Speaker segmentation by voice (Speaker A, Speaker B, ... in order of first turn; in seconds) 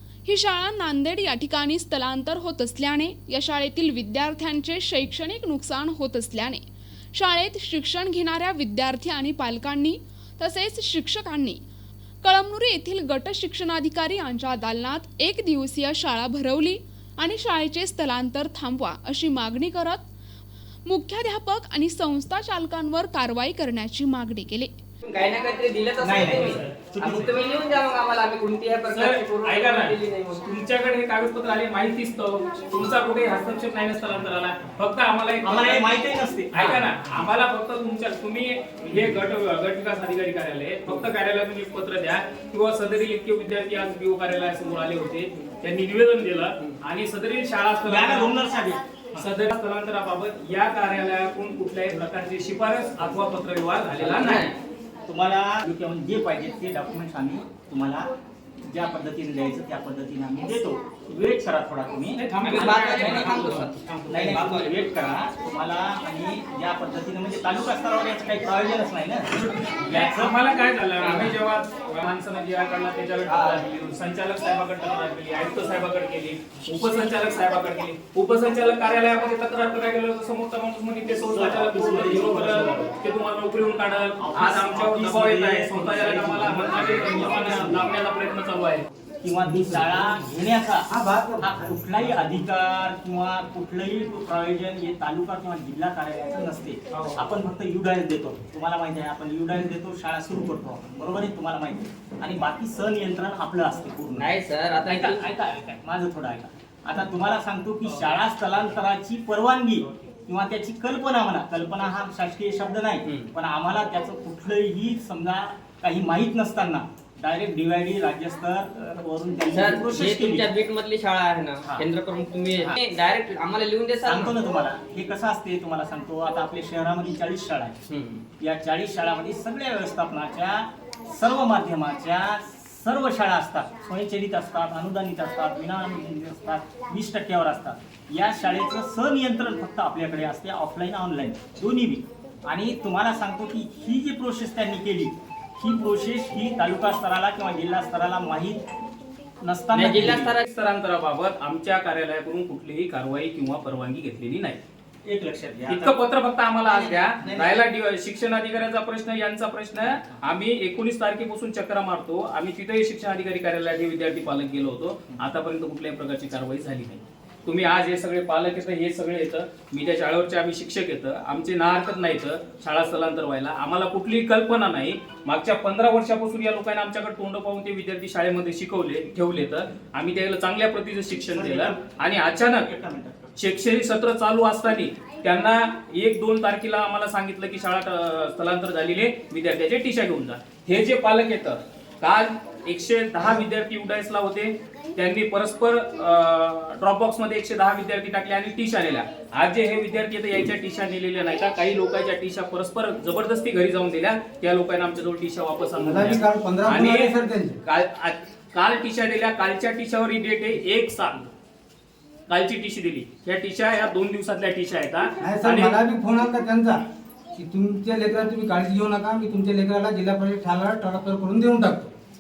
Speaker A: 0.2-6.6, 7.1-11.6, 12.2-20.1, 20.9-24.7
Speaker B: 25.1-30.5, 54.0-54.5, 62.4-64.9, 104.2-105.2, 119.5-124.4, 127.9-128.2, 149.7-150.4
Speaker C: 26.0-27.3, 35.4-37.0, 47.9-49.3, 55.1-58.1, 58.7-70.3, 73.3-73.6, 81.3-82.9, 84.2-87.9, 89.2-90.9, 91.4-104.3, 104.9-120.5, 124.0-127.8, 128.4-148.6, 149.4-150.3, 155.1-155.9, 156.7-157.6, 181.3-182.0, 182.6-183.3
Speaker D: 26.5-27.2, 28.9-48.3, 49.2-54.5, 62.2-63.7, 69.4-88.9, 96.9-97.2, 150.4-154.6, 155.7-182.7, 183.4-211.3, 212.3-215.8
Speaker E: 90.9-91.8, 205.8-207.6, 215.2-216.8, 217.3-221.9